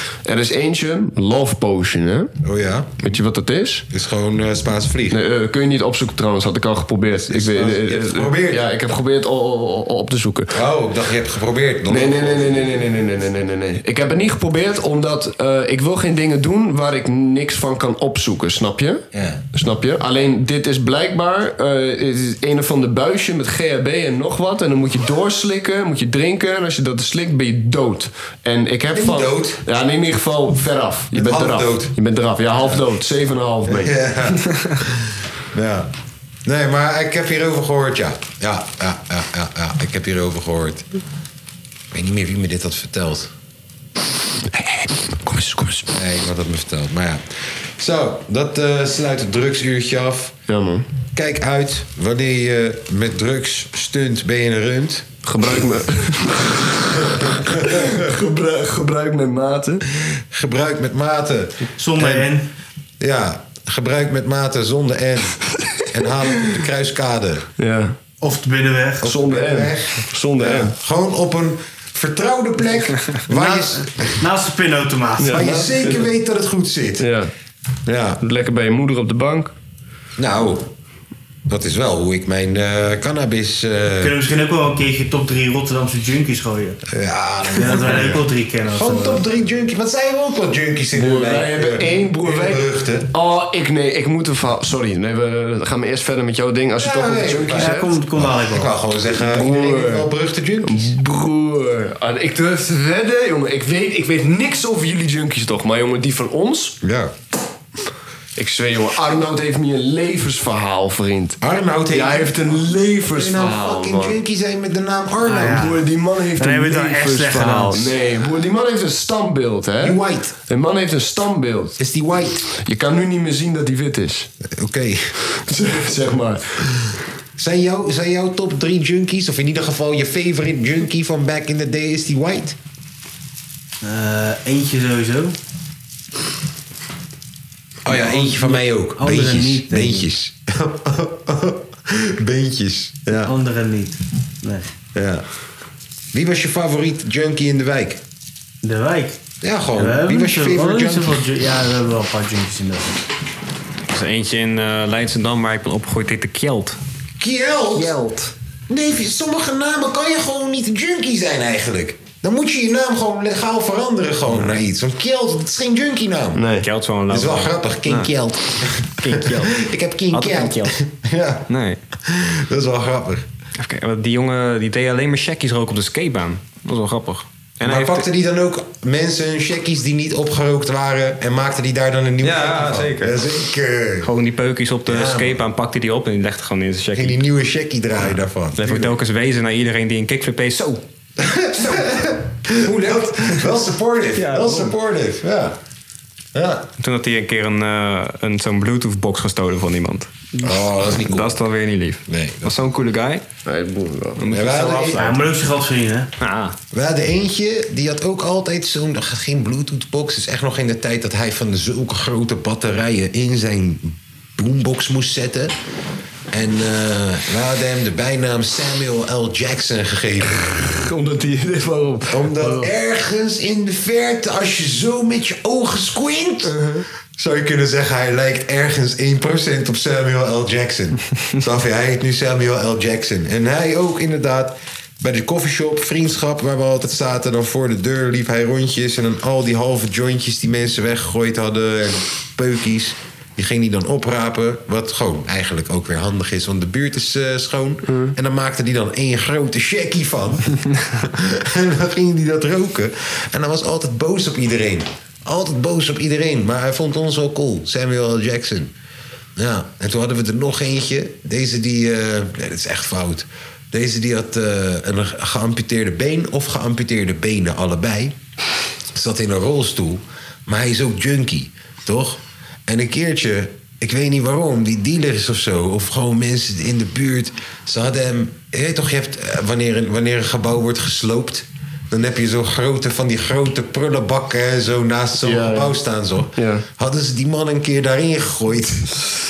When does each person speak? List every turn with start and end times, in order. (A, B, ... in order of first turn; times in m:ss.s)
0:00.3-0:02.3 A
0:02.4-0:03.1 B
0:03.0-0:03.9 A
0:03.9-0:05.2 B
0:05.1-0:10.6 A
0:07.3-0:08.6 B
0:10.5-0:12.8 B
0:11.9-0:19.0 A
0:19.1-0:19.4 B
0:19.5-0:34.0 A
0:28.9-0:29.6 B
0:31.1-0:31.9 B
0:33.7-0:35.9 B
0:36.4-0:40.9 B
0:41.9-0:43.3 B
0:44.6-0:45.9 A
0:45.9-0:50.4 B
0:50.5-0:50.9 A
0:51.2-0:55.1 B
0:55.2-0:59.8 A
0:57.3-0:58.0 B
1:00.1-1:02.3 B
1:01.8-1:02.5 C
1:03.0-1:07.4 B
1:07.6-1:08.0 A
1:08.2-1:09.1 C
1:09.0-1:14.2 B
1:09.0-1:10.8 A
1:13.3-1:15.6 C
1:15.2-1:16.1 A
1:15.3-1:17.1 B
1:17.0-1:17.3 A
1:17.9-1:18.2 B
1:18.2-1:19.5 A
1:20.2-1:20.7 B
1:21.5-1:24.2 B
1:24.0-1:26.8 C
1:26.9-1:33.1 B
1:27.6-1:29.2 C
1:30.9-1:38.0 A
1:36.8-1:41.0 B
1:37.5-1:38.8 C
1:39.2-1:40.1 A
1:40.6-1:46.8 A
1:46.8-1:47.1 B
1:48.4-1:51.4 A
1:51.4-1:52.4 B
1:51.9-1:54.2 A
1:53.1-1:55.8 B
1:55.2-1:55.8 C
1:55.4-2:01.8 A
1:56.4-1:57.9 C
1:59.8-2:00.4 B
2:01.8-2:02.5 B
2:02.6-2:04.3 A
2:04.4-2:05.2 B
2:05.3-2:06.9 A
2:07.4-2:12.6 B
2:13.8-2:15.4 C
2:17.8-2:23.3 B
2:17.9-2:20.1 C
2:23.2-2:24.7 C
2:25.0-2:25.2 B
2:26.1-2:28.0 B
2:28.6-2:29.2 C
2:29.4-2:31.2 B
2:29.8-2:33.0 C
2:33.9-2:36.8 D
2:37.2-2:38.0 B
2:37.8-2:38.3 D
2:38.7-2:46.4 B
2:46.4-2:46.7 A
2:46.6-2:48.1 D
2:47.1-2:51.5 B
2:49.0-2:50.8 D
2:51.5-2:51.8 D
2:52.0-2:53.3 B
2:53.6-2:58.0 D
2:57.6-3:04.1 B
3:02.2-3:03.2 D
3:04.0-3:07.2 D
3:04.9-3:05.4 B
3:07.0-3:09.0 B
3:08.6-3:10.8 D
3:11.2-3:15.6 B
3:14.2-3:14.7 D
3:16.3-3:16.7 B
3:16.8-3:20.1 D
3:20.4-3:21.3 B
3:21.0-3:23.2 D
3:22.1-3:22.6 B
3:23.5-3:24.2 A
3:24.2-3:25.1 D
3:24.3-3:25.0 B
3:25.0-3:26.1 C
3:26.2-3:26.6 D
3:26.7-3:35.6 B
3:36.3-3:40.7 B
3:40.6-3:42.7 A
3:42.1-3:46.6 B
3:46.4-3:46.8 A
3:47.2-4:18.7 B
4:19.4-4:28.2 B
4:28.9-4:49.0 B
4:45.2-4:45.8 A
4:46.4-4:46.6 A